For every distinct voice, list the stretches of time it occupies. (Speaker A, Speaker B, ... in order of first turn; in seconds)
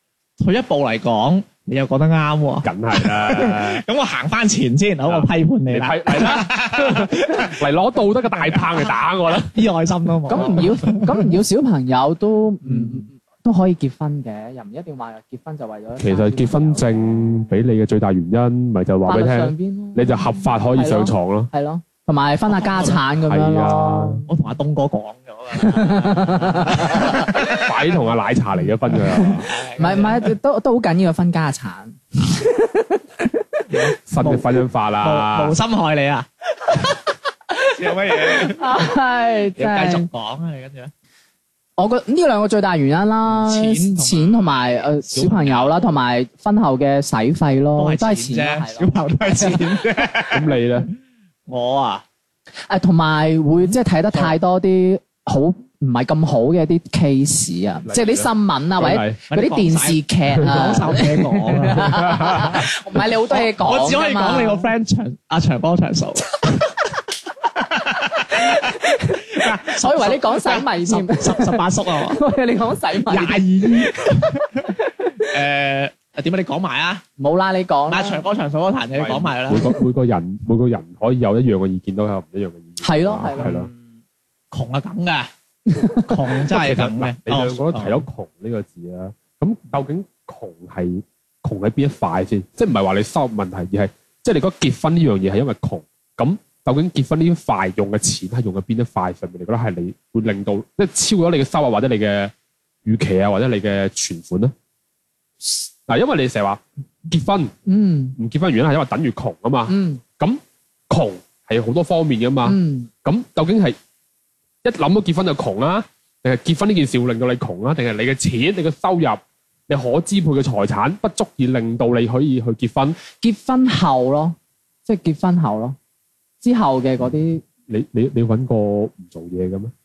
Speaker A: 0.4-7.6, 8.4-8.8, 9.4-11.3, 12.7-13.0, 22.5-23.0, 24.3-27.7, 29.5-30.3, 33.7-37.0, 37.6-38.7, 39.6-40.9, 43.3-45.8, 47.8-50.6, 51.5-52.0, 59.3-62.6, 63.3-66.6, 67.6-68.8, 69.3-72.2, 73.0-77.0, 77.9-79.7, 83.3-83.8, 84.5-85.3, 86.0-88.0
Speaker B: 2.6-3.8, 5.1-9.6, 16.0-21.5, 23.2-24.2, 27.3-29.5, 34.1-35.6, 50.3-50.9, 57.9-59.2, 61.9-62.6, 79.0-83.7, 86.5-102.3, 102.8-104.5, 105.9-107.5, 108.2-113.8, 114.6-123.0, 127.7-129.7
Speaker C: 10.3-17.5, 19.1-24.3, 25.6-27.3, 29.1-33.9, 37.5-40.1, 41.8-49.9, 52.7-64.7, 68.1-75.0, 77.2-78.2, 82.8-83.5, 85.7-86.1, 107.7-108.2, 109.7-110.0, 112.4-112.9, 123.2-125.8, 126.4-127.4